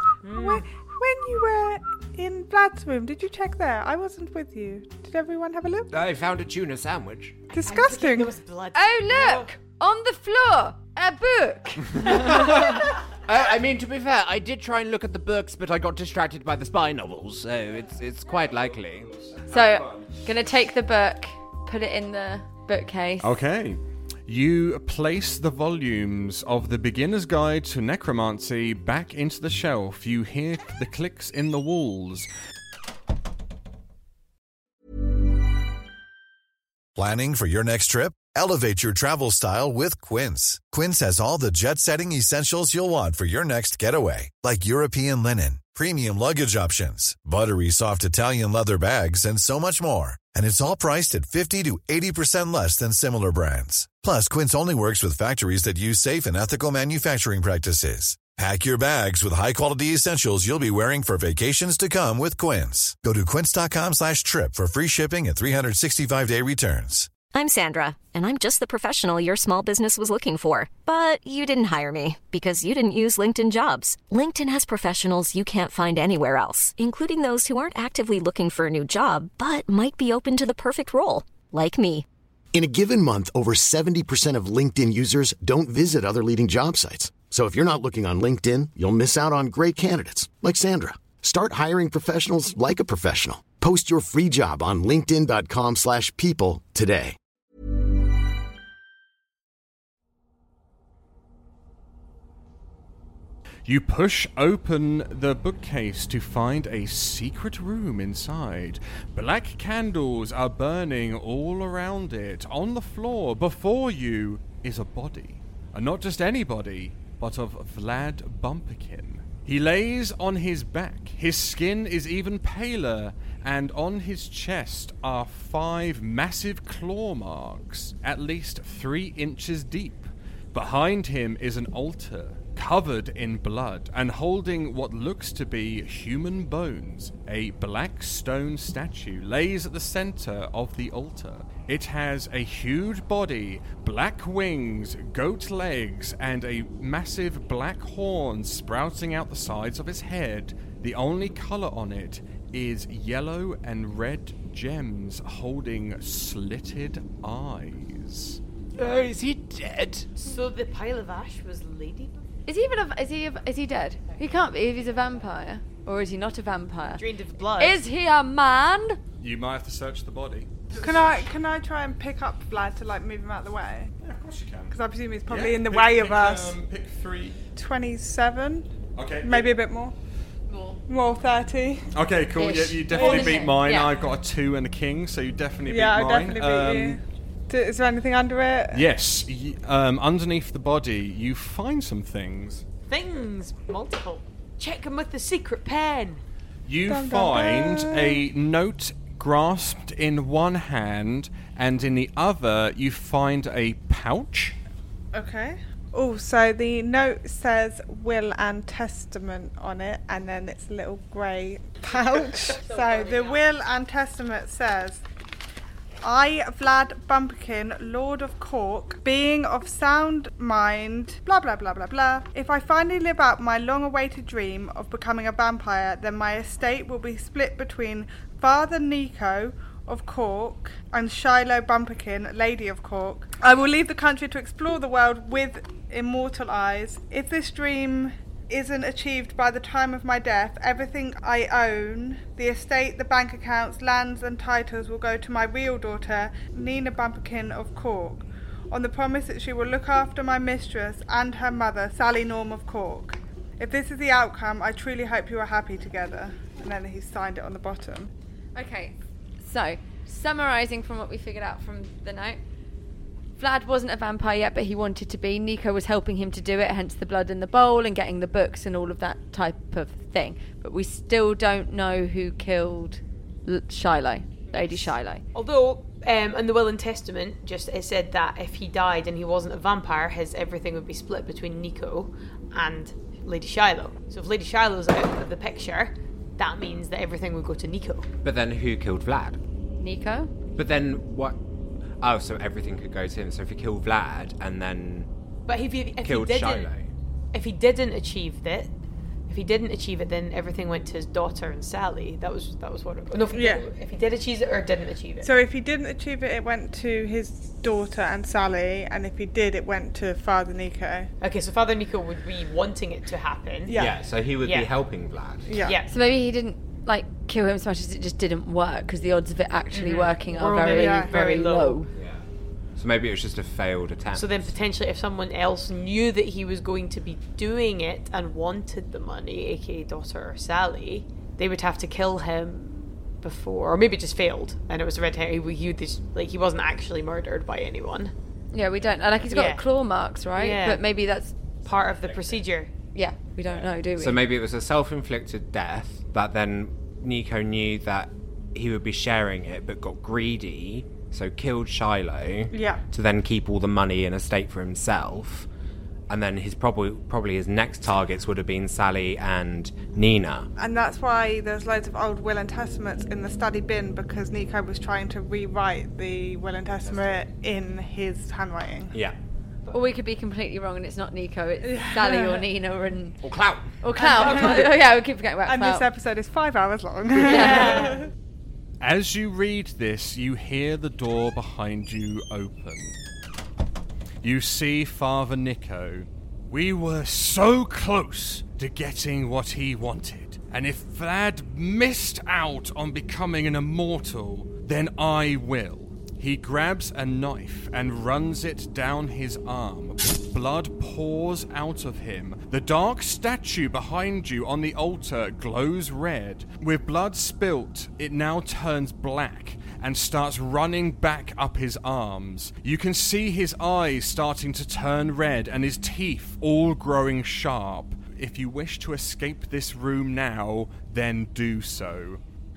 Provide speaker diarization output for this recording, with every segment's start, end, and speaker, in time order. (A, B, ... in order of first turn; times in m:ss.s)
0:00.2-0:00.7 A
0:00.3-0:05.9 B
0:05.9-0:07.4 C
0:07.5-0:08.4 B
0:07.6-0:09.5 A
0:08.8-0:12.7 D
0:12.2-0:19.2 C
0:19.2-0:20.0 E
0:19.5-0:23.3 D
0:23.2-0:32.3 E
0:37.0-1:07.2 F
1:07.3-1:22.0 G
1:22.5-1:37.2 H
1:43.7-2:38.4 E
2:38.8-2:40.1 C
2:40.2-2:42.2 A
2:42.5-2:47.0 D
2:47.0-2:47.8 A
2:47.6-2:49.0 D
2:49.2-2:51.3 E
2:50.8-2:53.9 B
2:54.0-2:54.8 E
2:54.7-2:56.6 B
2:55.3-2:57.4 E
2:57.6-2:58.7 B
2:59.0-2:59.5 E
2:59.2-2:59.9 B
3:00.5-3:00.8 D
3:00.9-3:01.9 B
3:01.9-3:07.0 E
3:02.4-3:03.9 D
3:02.9-3:03.6 B
3:05.6-3:08.9 B
3:08.7-3:12.6 E
3:12.9-3:16.2 A
3:16.6-3:24.6 E
3:16.8-3:18.2 B
3:25.1-3:35.0 B
3:32.1-3:33.5 A
3:36.0-4:18.1 B
4:18.6-4:22.4 D
4:23.4-4:35.2 D
4:34.6-4:48.1 A
4:48.2-4:49.4 C
4:49.8-4:50.3 D
4:50.6-4:51.4 C
4:52.0-4:55.1 C
4:55.5-4:56.7 A
4:56.0-4:56.9 C
4:57.3-4:58.7 A
4:59.3-5:05.3 A
5:03.3-5:03.7 B
5:05.2-5:11.1 B
5:11.2-5:13.8 A
5:13.7-5:14.0 B
5:13.7-5:15.5 C
5:14.4-5:14.7 A
5:15.5-5:15.8 B
5:15.6-5:15.9 A
5:15.9-5:21.9 D
5:19.7-5:21.8 A
5:20.6-5:21.1 B
5:21.9-5:22.2 C
5:22.8-5:24.5 C
5:24.2-5:38.1 A
5:38.5-5:41.3 D
5:39.3-5:39.6 A
5:40.4-5:40.8 A
5:41.6-5:42.7 A
5:41.7-5:42.4 C
5:42.9-5:44.3 D
5:44.0-5:55.5 C
5:52.5-5:52.8 B
5:56.1-6:00.5 C
6:00.6-6:09.0 B
6:06.8-6:07.3 C
6:09.7-6:13.2 D
6:11.6-6:12.4 B
6:13.2-6:13.7 C
6:13.8-6:15.9 D
6:14.0-6:14.8 B
6:14.2-6:14.6 A
6:15.4-6:18.1 B
6:17.2-6:18.0 A
6:17.3-6:17.9 D
6:18.8-6:23.0 E
6:24.2-7:02.2 E